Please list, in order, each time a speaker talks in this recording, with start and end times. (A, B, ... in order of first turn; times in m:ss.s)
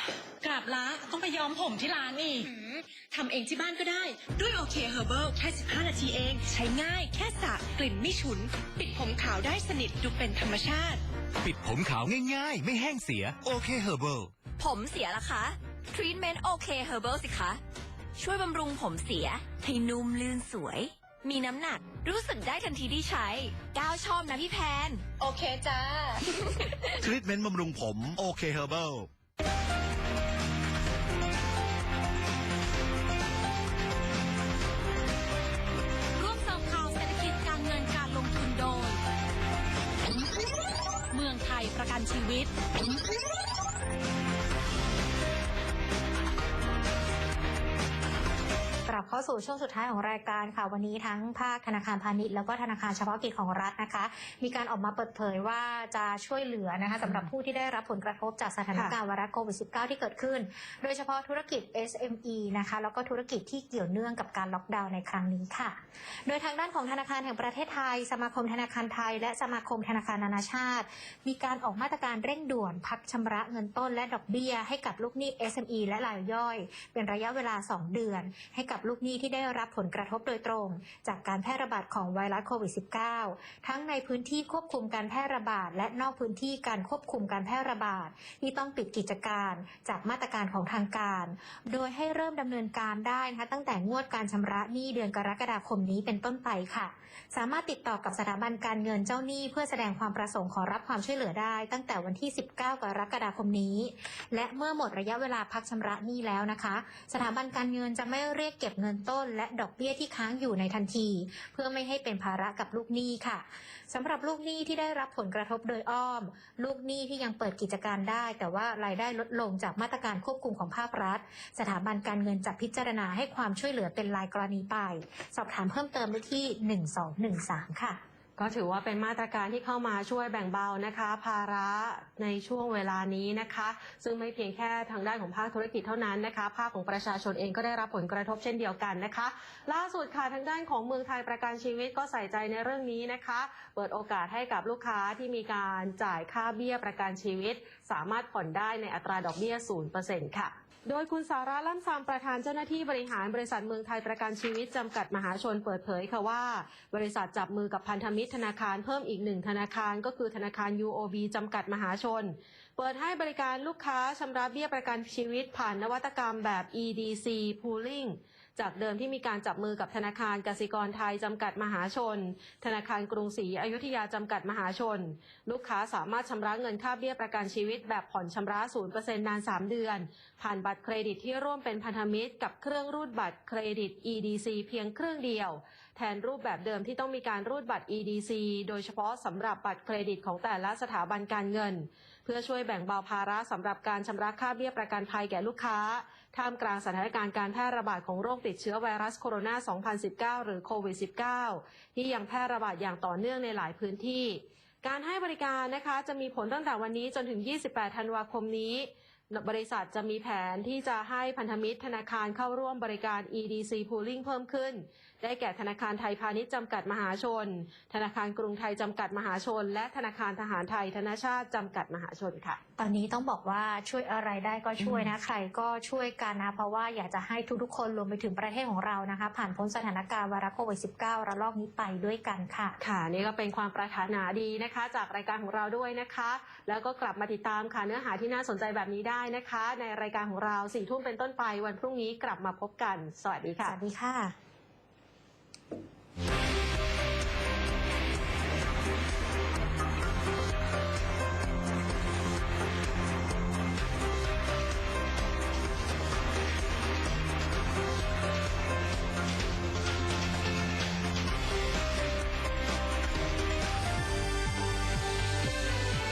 0:00.4-0:11.0 A
0:11.4-0:14.3 B
0:14.6-0:17.6 C
0:18.2-0:25.0 C
0:26.3-0:27.0 C
0:27.0-0:29.1 B
0:36.2-0:39.0 D
0:41.1-0:42.5 D
0:48.9-2:08.0 E
2:08.4-3:42.6 F
3:42.8-3:52.8 E
3:44.8-3:45.1 F
3:52.8-4:03.8 F
4:03.6-4:04.3 E